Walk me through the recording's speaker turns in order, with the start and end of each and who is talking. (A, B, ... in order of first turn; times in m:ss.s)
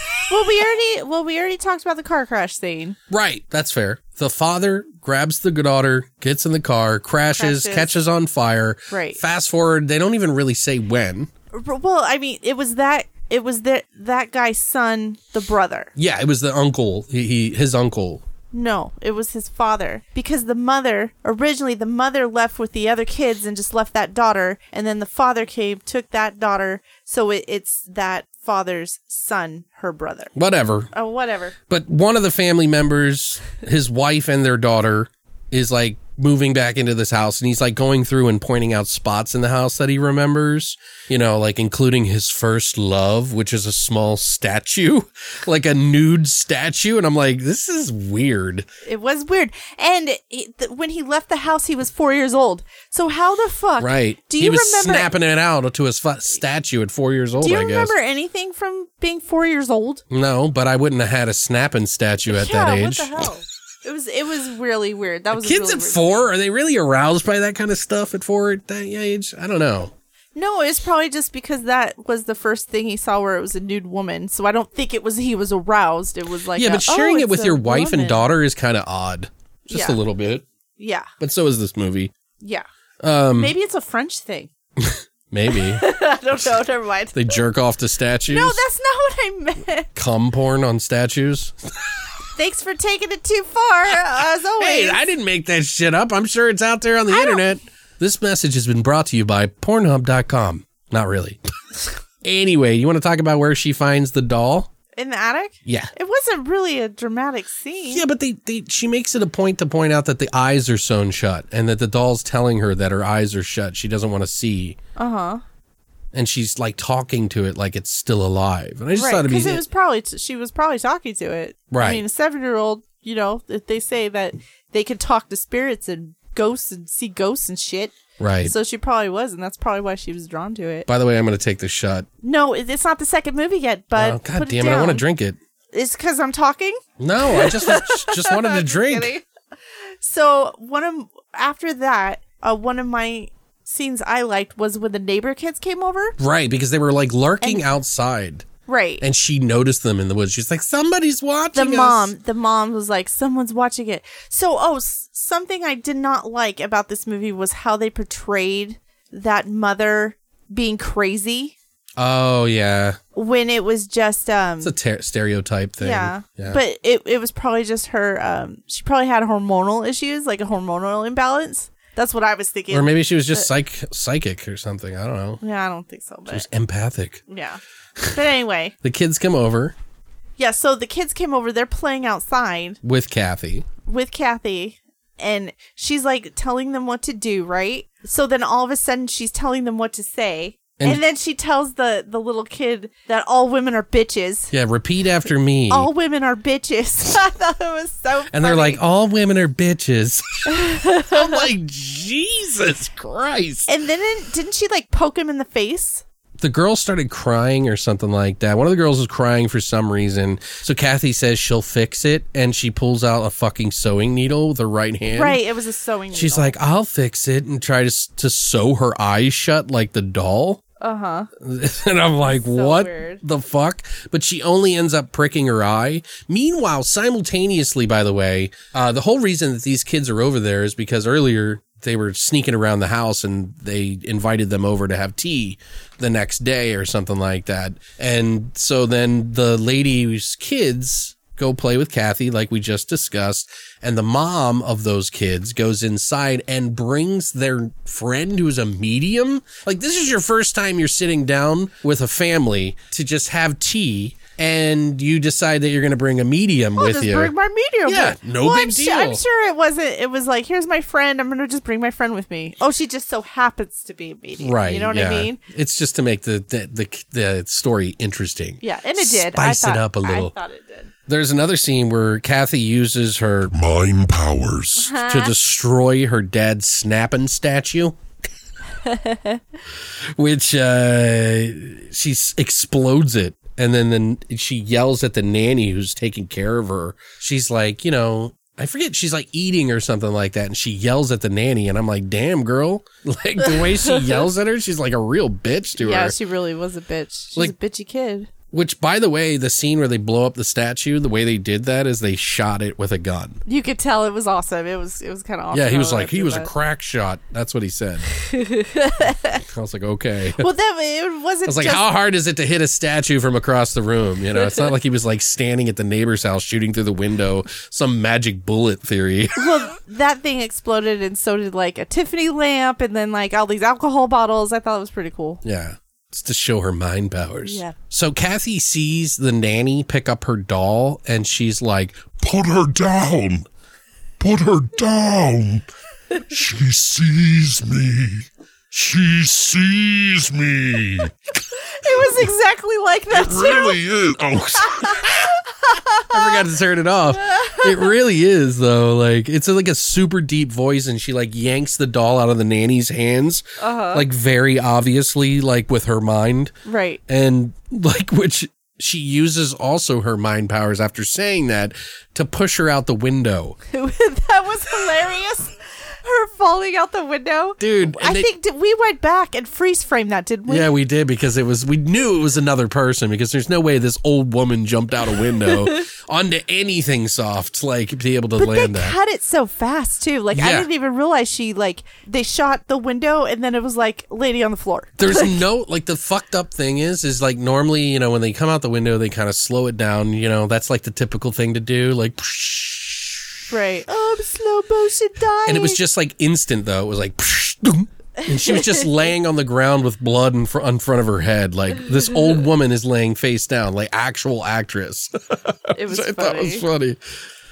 0:00.3-0:03.0 A
0:03.1-0:11.3 B
0:07.4-0:08.0 A
0:08.9-0:09.2 A
0:11.5-0:15.9 A
0:16.0-0:18.2 B
0:18.5-0:30.3 A
0:30.4-0:30.9 B
0:30.9-0:31.6 A
0:31.7-0:48.7 B
0:48.8-0:55.1 A
0:53.8-0:58.0 B
0:57.4-1:00.0 A
1:00.1-1:03.3 B
1:02.3-1:06.3 A
1:05.3-1:09.9 B
1:10.4-1:18.3 A
1:16.6-1:20.4 B
1:19.7-1:20.0 A
1:20.8-1:21.1 A
1:21.2-1:22.1 B
1:23.0-1:23.6 B
1:23.4-1:24.5 A
1:24.8-1:25.8 B
1:25.6-1:27.4 A
1:27.1-1:28.6 B
1:28.3-1:29.9 A
1:30.0-1:31.9 B
1:32.4-1:35.1 A
1:34.6-1:41.4 B
1:37.1-1:37.4 A
1:42.2-1:44.7 B
1:45.0-1:48.0 A
1:45.6-1:45.9 B
1:47.9-1:54.8 B
1:55.0-1:55.4 A
1:56.1-1:59.6 B
1:58.9-2:10.9 A
2:01.7-2:02.0 B
2:08.2-2:08.6 B
2:10.9-2:12.1 B
2:12.2-2:15.0 A
2:14.0-2:15.4 B
2:15.7-2:19.2 A
2:17.0-2:19.1 B
2:20.0-2:26.2 A
2:26.2-2:28.5 B
2:27.4-2:27.8 A
2:28.7-2:29.0 A
2:29.0-2:32.1 B
2:31.5-2:41.6 A
2:42.0-2:43.0 B
2:43.2-2:44.8 A
2:44.6-2:46.6 B
2:45.8-2:53.5 A
2:52.7-2:55.4 B
2:55.4-2:56.5 A
2:56.3-2:57.2 B
2:57.3-2:57.6 A
2:58.1-2:58.7 A
2:58.8-2:59.8 B
3:00.4-3:02.8 A
3:02.8-3:03.7 B
3:03.9-3:14.5 A
3:14.5-3:15.9 B
3:15.7-3:18.8 A
3:18.3-3:23.7 B
3:20.5-3:21.4 A
3:23.7-3:26.0 A
3:26.4-3:35.4 B
3:35.1-3:36.6 A
3:36.1-3:40.6 B
3:40.8-3:41.3 A
3:41.4-4:17.3 B
3:42.2-3:43.2 A
4:16.8-4:25.4 A
4:17.9-4:19.2 B
4:24.4-4:30.3 B
4:28.6-4:30.9 A
4:31.1-4:33.5 B
4:33.5-4:35.0 C
4:34.8-4:35.3 A
4:35.0-4:38.0 B
4:38.8-4:39.4 A
4:40.2-4:56.2 B
4:55.8-4:58.3 A
4:58.5-5:03.4 B
5:03.5-5:06.5 A
5:05.5-5:08.1 B
5:08.2-5:09.4 A
5:09.4-5:10.5 B
5:10.4-5:11.8 A
5:11.4-5:19.7 B
5:19.4-5:25.4 A
5:25.4-5:32.2 B
5:27.4-5:27.8 A
5:32.2-5:33.5 C
5:34.2-5:35.6 C
5:36.3-5:41.1 C
5:41.6-5:43.8 A
5:43.1-5:45.1 C
5:44.9-5:46.4 A
5:46.0-5:56.5 B
5:47.2-5:47.9 A
5:53.6-5:54.1 A
5:56.6-5:57.0 A
5:57.1-6:03.6 B
6:03.7-6:10.7 A
6:07.6-6:08.3 B
6:10.5-6:19.0 B
6:18.4-6:25.4 A
6:20.3-6:20.7 B
6:25.0-6:33.4 B
6:33.5-6:35.8 A
6:35.4-6:47.0 B
6:38.3-6:38.8 A
6:45.7-6:46.7 A